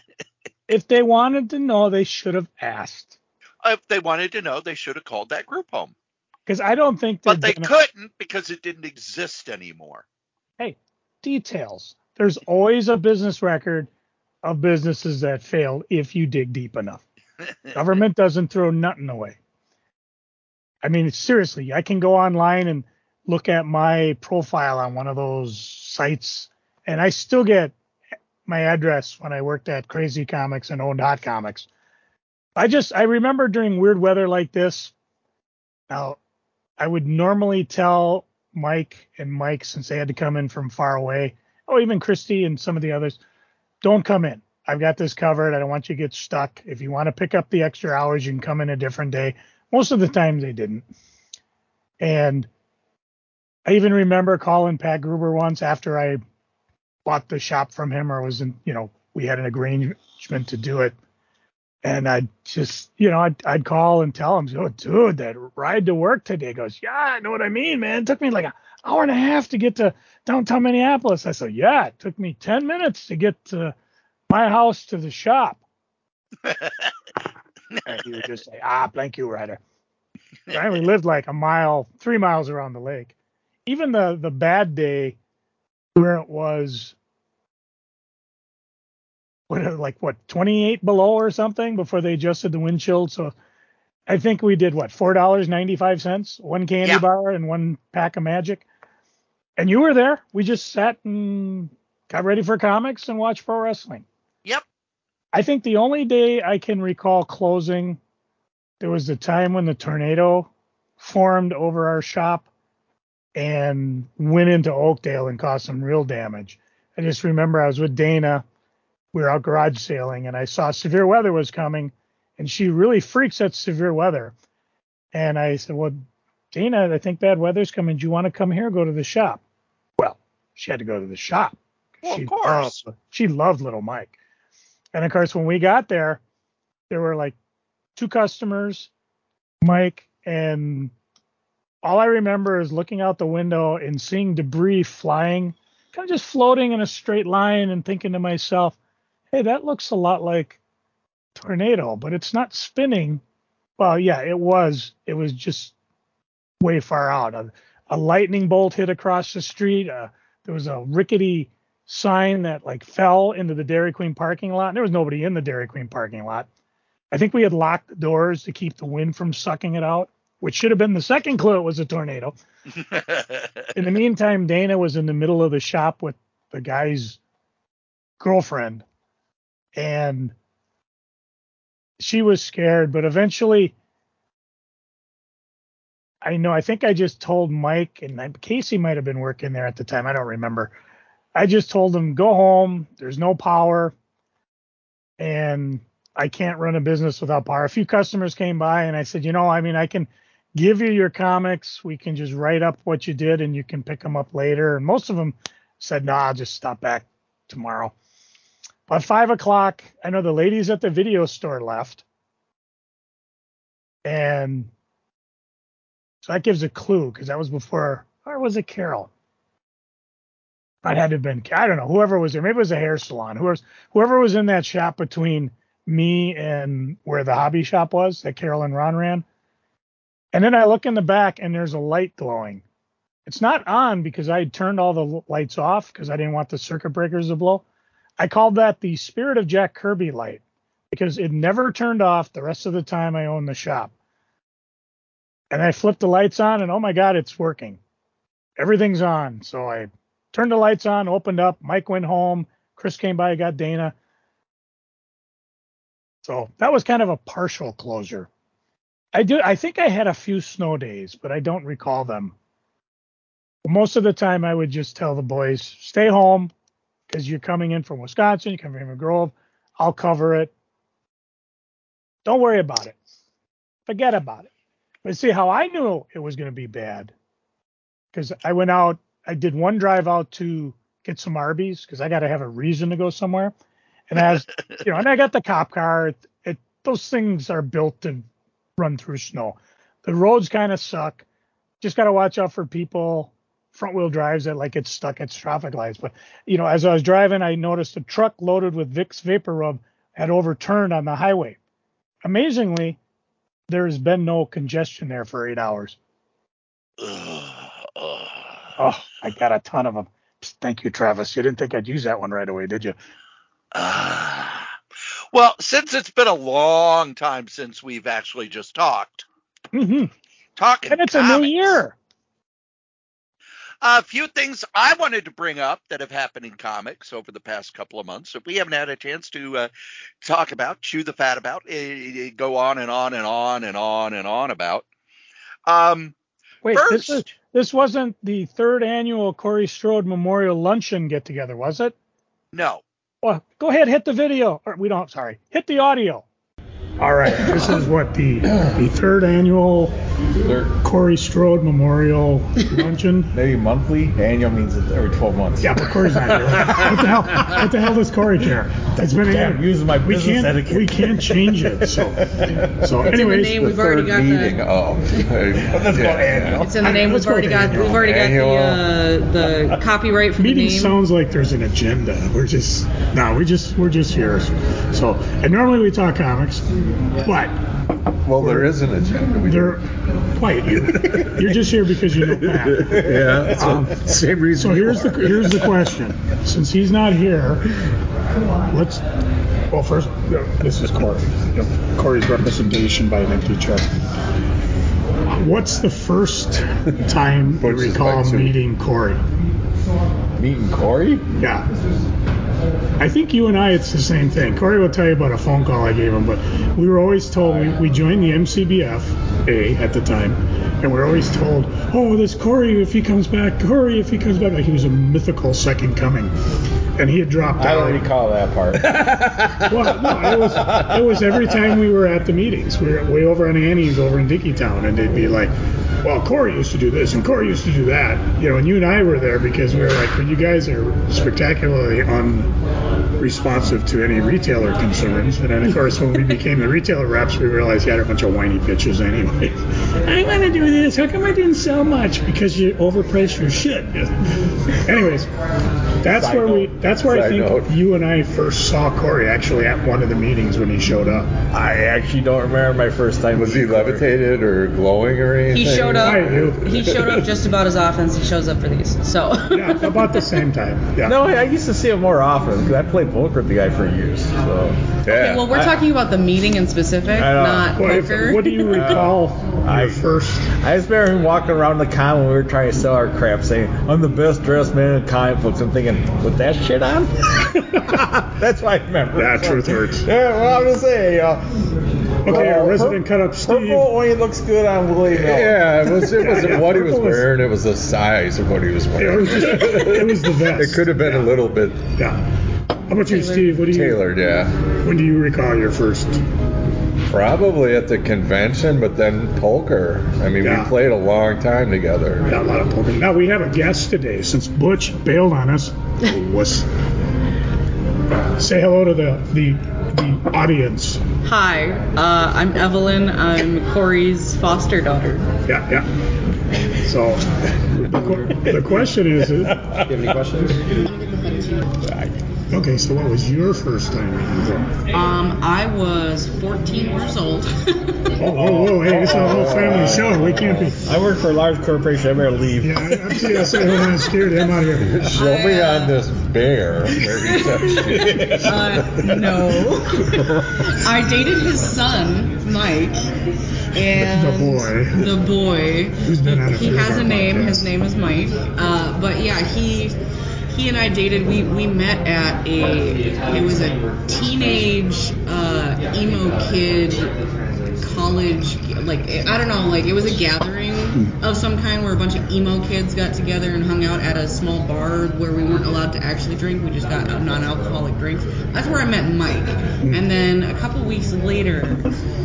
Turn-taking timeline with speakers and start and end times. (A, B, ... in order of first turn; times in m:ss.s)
0:00.7-0:03.1 A
0:03.6-0:05.9 B
0:06.5-0:07.7 A
0:07.2-0:10.0 B
0:10.6-0:13.9 A
0:14.4-0:17.0 A
0:17.7-0:19.4 A
0:20.8-0:27.8 A
0:28.4-0:31.7 A
0:32.6-0:34.9 A
0:35.9-0:36.2 A
0:36.8-0:43.2 A
0:43.8-0:50.8 A
0:52.0-0:52.5 A
0:53.7-0:56.2 A
0:57.0-1:00.9 A
1:01.8-1:13.8 A
1:14.3-1:15.6 A
1:16.4-1:16.9 B
1:17.7-1:18.0 B
1:17.9-1:19.6 A
1:20.5-1:23.1 A
1:23.7-1:25.2 A
1:26.0-1:26.9 A
1:29.5-1:33.3 A
1:34.1-1:38.6 A
1:39.6-1:44.0 A
1:45.3-1:48.0 A
1:48.8-1:52.5 A
1:53.4-1:58.4 A
1:59.1-2:04.4 A
2:05.1-2:09.4 A
2:10.0-2:14.1 A
2:12.0-2:12.8 B
2:14.9-2:16.2 A
2:16.9-2:17.4 A
2:18.0-2:18.9 A
2:19.6-2:20.9 A
2:21.8-2:28.8 A
2:29.3-2:30.6 A
2:31.4-2:33.2 A
2:33.8-2:35.7 A
2:36.6-2:46.5 A
2:47.1-2:52.4 A
2:52.8-2:53.7 B
2:53.7-2:57.2 A
2:58.2-2:58.8 A
2:59.8-3:00.4 A
3:02.0-3:03.7 A
3:06.2-3:10.8 A
3:11.4-3:13.9 A
3:15.2-3:27.9 A
3:28.9-3:32.0 A
3:34.0-3:34.7 A
3:36.2-3:39.1 A
3:40.8-3:49.2 A
3:50.3-3:52.6 A
3:53.2-3:57.6 A
3:58.2-4:03.9 A
4:05.5-4:07.8 A
4:08.6-4:13.9 A
4:16.2-4:18.3 A
4:19.1-4:22.4 A
4:23.6-4:26.5 A
4:27.1-4:30.5 A
4:32.2-4:33.0 A
4:33.9-4:34.5 A
4:35.0-4:37.1 A
4:38.1-4:43.5 A
4:44.1-4:48.2 A
4:48.8-4:51.2 A
4:51.8-5:01.6 A
5:02.2-5:03.0 A
5:03.7-5:06.0 A
5:07.0-5:08.7 B
5:08.8-5:13.0 A
5:13.7-5:14.8 B
5:15.3-5:19.3 B
5:19.7-5:20.1 A
5:20.6-5:21.8 B
5:20.9-5:21.9 A
5:23.8-5:29.7 B
5:30.2-5:34.8 B
5:35.6-5:36.1 B
5:36.6-5:41.9 A
5:36.7-5:37.3 B
5:42.5-5:42.8 B
5:43.2-5:46.2 A
5:47.0-5:49.9 A
5:50.4-5:50.8 C
5:50.8-5:53.3 A
5:53.3-5:57.5 D
5:55.6-6:03.6 A
5:59.2-6:02.4 D
6:02.5-6:06.9 C
6:03.0-6:04.6 E
6:05.7-6:06.7 D
6:05.9-6:08.0 A
6:06.6-6:11.0 E
6:07.7-6:08.8 C
6:10.4-6:16.7 A
6:17.2-6:17.6 A
6:18.2-6:19.8 C
6:18.4-6:18.8 A
6:19.4-6:23.0 A
6:20.7-6:21.6 C
6:22.2-6:25.7 C
6:22.9-6:25.5 D
6:23.5-6:27.8 A
6:28.5-6:29.0 A
6:29.7-6:33.9 A
6:35.3-6:39.2 A
6:37.6-6:38.6 C
6:40.4-6:41.2 C
6:41.4-6:41.7 A
6:43.0-6:56.3 A
6:57.0-6:58.1 A
6:57.6-7:01.0 D
6:59.6-7:12.5 A
7:13.2-7:25.3 A
7:26.0-7:31.3 A
7:26.2-7:26.7 D
7:26.9-7:27.8 C
7:31.5-7:34.1 D
7:33.3-7:37.3 C
7:35.5-7:40.5 E
7:36.0-7:36.6 A
7:39.5-7:41.2 A
7:41.0-7:45.0 D
7:45.0-7:45.6 C
7:45.1-7:48.9 E
7:47.1-7:48.0 D
7:47.8-7:50.5 A
7:48.7-7:49.1 D
7:49.6-8:01.4 D
7:57.5-7:58.1 A
7:59.1-8:00.1 A
8:02.2-8:03.9 A
8:02.2-8:05.8 D
8:05.1-8:11.9 C
8:05.9-8:07.2 A
8:09.0-8:11.3 A
8:12.0-8:12.2 A
8:12.9-8:14.0 A
8:13.0-8:13.6 E
8:13.6-8:14.5 C
8:14.8-8:16.2 A
8:17.1-8:22.4 C
8:20.4-8:20.7 A
8:22.3-8:26.7 A
8:28.4-8:31.0 A
8:31.2-8:35.3 E
8:35.4-8:35.9 A
8:36.7-8:39.7 A
8:38.0-8:38.4 D
8:39.7-8:40.7 D
8:40.8-8:41.6 E
8:41.8-8:42.2 D
8:42.5-8:44.7 A
8:44.9-8:48.1 E
8:48.2-8:50.8 A
8:48.4-8:50.7 C
8:48.4-8:53.9 D
8:52.6-8:55.2 A
8:54.7-8:59.3 C
8:55.1-8:56.0 E
8:57.2-9:10.0 E
9:03.9-9:05.1 A
9:06.0-9:07.6 A
9:10.5-9:17.2 E
9:17.8-9:31.9 E